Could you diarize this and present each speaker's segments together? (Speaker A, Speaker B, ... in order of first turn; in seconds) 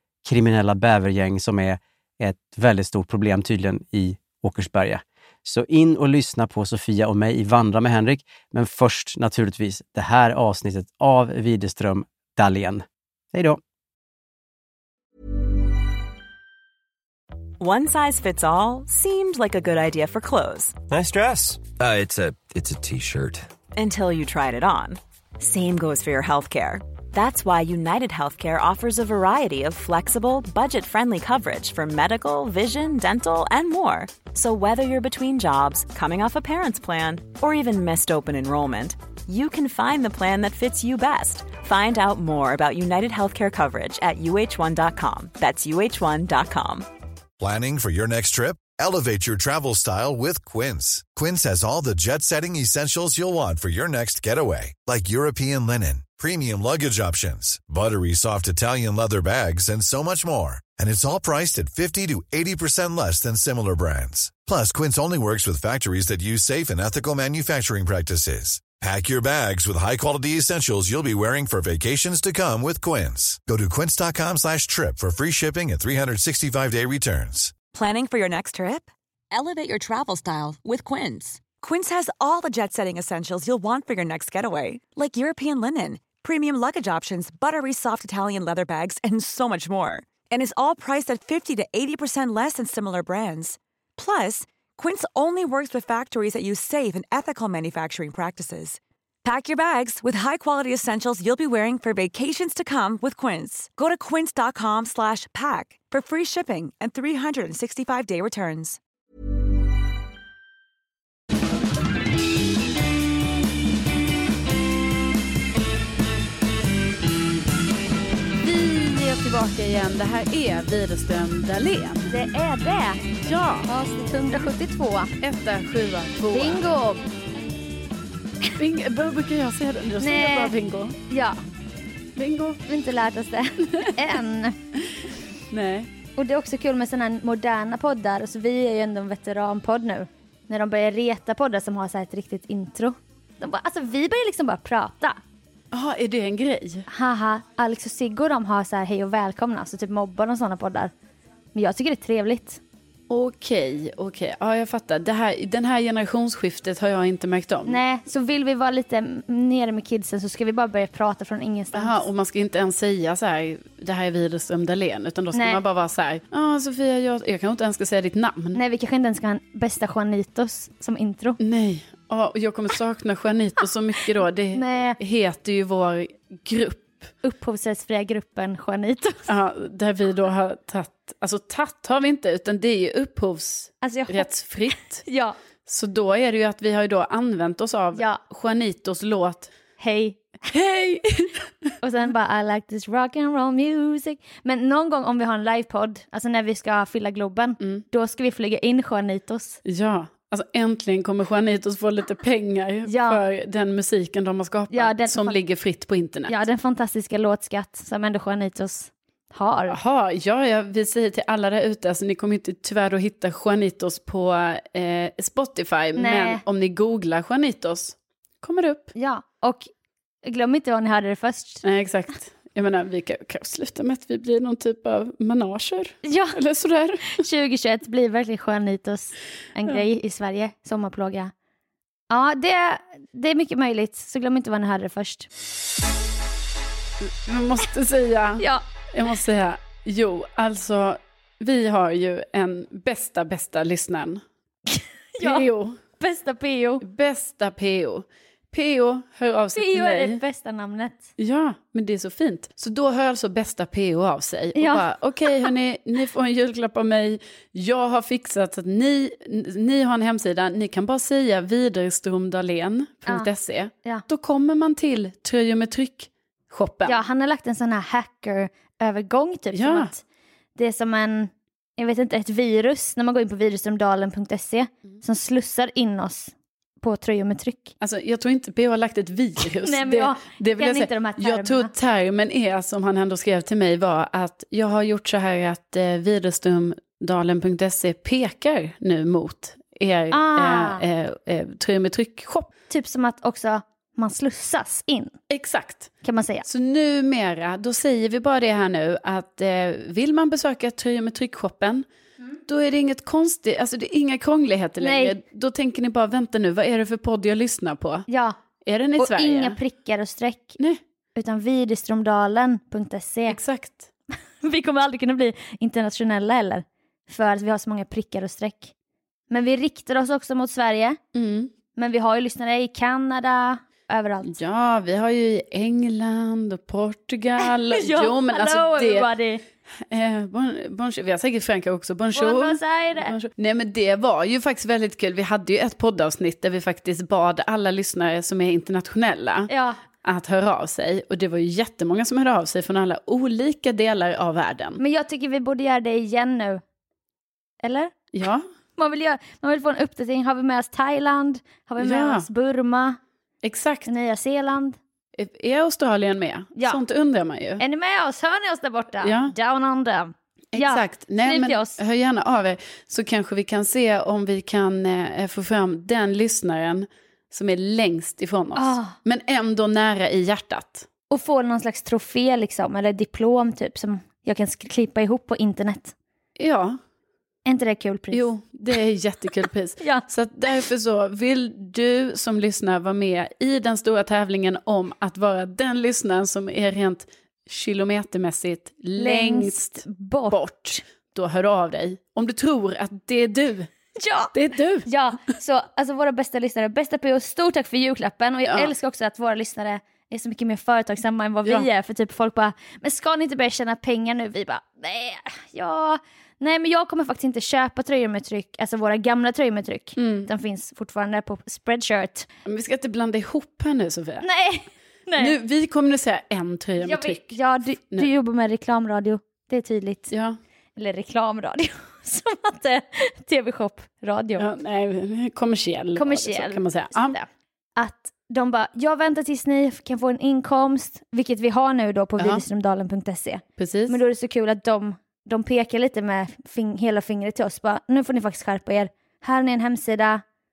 Speaker A: 0.2-13.6
Speaker B: 17.6-20.8, 23.8-46.9
Speaker C: 20.9-23.5
Speaker D: 47.4-77.5
Speaker E: 77.7-108.8
Speaker F: 118.4-122.1, 123.2-123.7, 125.2-126.6, 128.6-130.9, 132.2-132.6, 135.5-135.9, 145.7-146.9, 153.1-157.8, 161.7-168.6, 171.4-177.1, 179.3-185.0, 185.7-189.5, 190.5-191.3, 199.6-206.3, 209.7-218.9, 221.6-227.2, 237.0-244.2, 245.2-245.8, 246.8-250.2, 251.2-267.0, 269.5-269.9, 277.8-292.5, 295.3-295.9, 296.4-301.9, 302.5-308.1, 308.6-309.6, 313.3-313.9, 321.1-321.5, 324.2-329.1, 329.9-339.5, 340.0-344.8, 348.1-348.4, 351.8-352.3, 353.4-353.9, 355.1-357.6, 359.0-359.3, 360.5-370.9, 376.4-376.8, 378.1-393.7, 394.3-394.9, 398.5-398.7, 410.0-410.3, 412.4-414.2, 415.1-417.4, 420.1-420.4, 424.4-427.1, 432.2-432.4, 433.6-433.9
Speaker G: 122.1-123.0, 123.7-125.1, 126.3-127.0, 130.0-130.5, 131.1-131.4, 132.7-134.6, 136.2-145.2, 146.9-150.9, 151.5-152.6, 157.7-162.0, 165.3-165.6, 168.5-171.4, 174.5-175.0, 177.2-179.3, 183.8-184.3, 185.0-185.3, 187.9-188.2, 189.8-190.2, 191.8-199.6, 202.8-203.2, 204.7-205.3, 206.3-209.8, 215.9-216.4, 218.9-219.7, 220.2-221.6, 226.0-226.4, 227.1-231.3, 232.1-235.3, 238.4-238.6, 244.7-245.4, 246.0-246.8, 249.5-251.0, 254.5-255.4, 266.8-270.0, 270.6-277.7, 279.6-281.7, 290.1-290.8, 292.7-295.1, 296.0-296.4, 304.8-305.1, 308.1-308.4, 309.0-310.6, 311.1-313.4, 314.4-318.7, 319.3-321.0, 321.7-324.3, 327.7-329.4, 332.1-333.1, 339.5-339.8, 344.8-346.6, 347.6-347.9, 348.8-353.0, 353.9-354.8, 357.6-361.8, 368.5-368.9, 371.1-375.9, 377.4-378.3, 379.8-380.1, 389.0-390.4, 394.0-394.3, 394.8-412.3, 414.2-415.3, 416.8-420.1, 420.8-424.4, 425.9-440.2